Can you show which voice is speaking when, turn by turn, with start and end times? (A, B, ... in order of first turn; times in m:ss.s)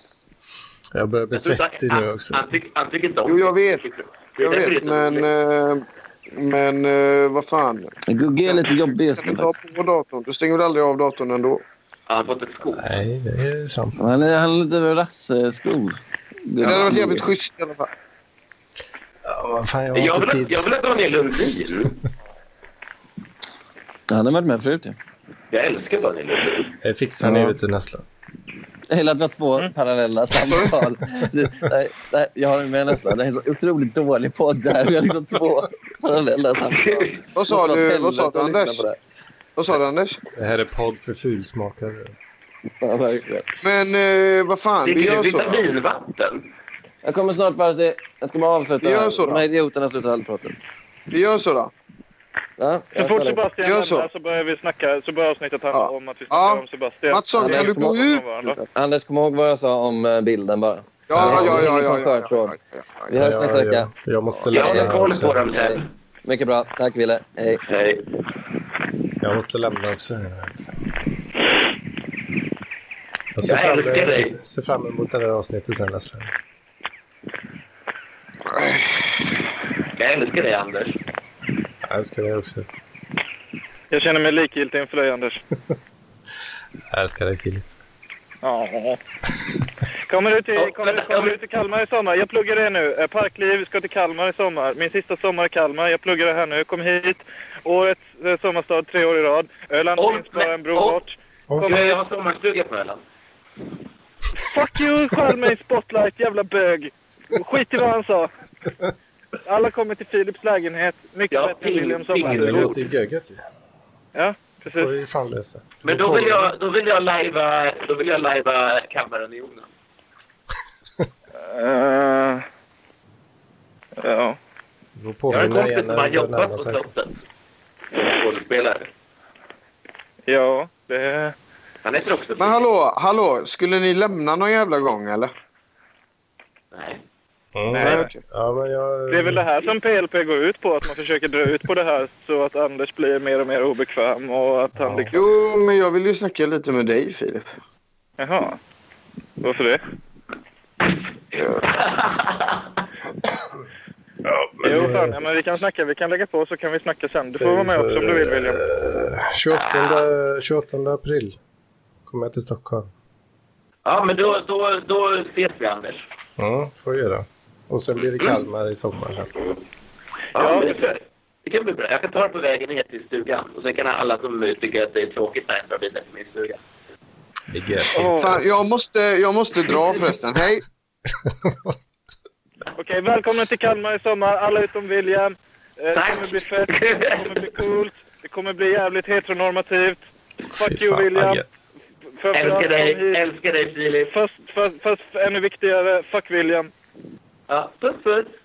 0:00.9-0:02.4 A
0:01.3-0:05.3 B
0:03.2-0:03.8 C
0:04.4-0:07.9 C
0:08.1-0:09.5 D
0:08.4-0:11.6 C
0:12.1-0:12.9 B
0:12.7-0:14.0 A
0:14.0-0:16.0 D
0:16.5-0:17.3 D
0:16.6-0:17.9 C
0:16.6-0:16.9 B
0:19.2-0:20.7 A
0:19.9-0:22.0 B
0:24.1-0:25.0 D
0:25.5-0:26.7 B
0:26.8-0:28.0 A
0:28.9-0:39.0 D
0:30.4-0:30.8 C
0:36.7-0:37.2 B
0:37.3-0:38.8 C
0:39.6-0:40.2 C
0:40.3-0:42.1 A
0:42.8-0:43.5 D
0:43.6-0:45.6 C
0:44.8-0:46.5 B
0:47.0-0:50.6 D
0:48.8-0:49.4 C
0:51.1-0:51.7 C
0:52.6-0:53.4 D
0:53.0-0:58.6 E
0:53.6-0:54.1 C
0:55.7-0:58.6 C
0:57.4-0:58.0 D
0:58.7-1:02.6 D
1:01.1-1:03.1 C
1:01.2-1:01.7 A
1:03.1-1:03.9 D
1:03.2-1:05.4 A
1:04.3-1:04.8 C
1:04.5-1:05.9 B
1:05.5-1:07.6 D
1:07.7-1:08.0 B
1:09.2-1:10.7 A
1:13.4-1:16.3 A
1:13.4-1:14.3 B
1:18.5-1:19.0 C
1:20.0-1:21.0 B
1:21.8-1:22.7 A
1:23.9-1:25.4 E
1:26.9-1:27.7 A
1:28.4-1:29.0 E
1:30.1-1:42.0 E
1:30.5-1:31.4 B
1:40.0-1:41.0 B
1:41.6-1:43.0 B
1:44.4-1:48.3 E
1:49.4-1:52.7 E
1:51.3-1:52.8 B
1:52.2-1:53.4 A
1:54.1-1:54.9 E
1:54.7-1:56.5 A
1:55.8-1:59.7 B
2:01.4-2:02.4 E
2:04.0-2:04.4 E
2:05.0-2:06.9 A
2:05.3-2:07.1 B
2:07.9-2:08.9 B
2:10.3-2:11.3 E
2:11.8-2:12.7 B
2:12.4-2:15.3 C
2:16.7-2:17.0 B
2:17.6-2:19.5 A
2:17.7-2:18.1 E
2:17.8-2:18.2 C
2:19.1-2:25.2 E
2:24.7-2:25.2 A
2:25.1-2:27.5 C
2:28.2-2:28.6 E
2:29.4-2:29.8 E
2:31.4-2:32.6 B
2:34.2-2:35.6 A
2:34.6-2:38.6 E
2:37.3-2:41.4 A
2:39.5-2:40.1 B
2:42.0-2:42.9 A
2:43.8-2:46.0 B
2:46.4-2:49.3 A
2:48.2-2:48.4 B
2:50.3-2:56.6 B
2:50.4-2:50.8 E
2:57.5-2:58.4 A
2:57.9-2:58.4 E
2:58.0-3:00.6 C
3:01.2-3:01.7 A
3:02.8-3:11.4 E
3:05.9-3:07.5 B
3:10.6-3:11.5 A
3:12.2-3:13.2 E
3:12.3-3:14.1 B
3:14.1-3:16.7 E
3:17.5-3:18.3 B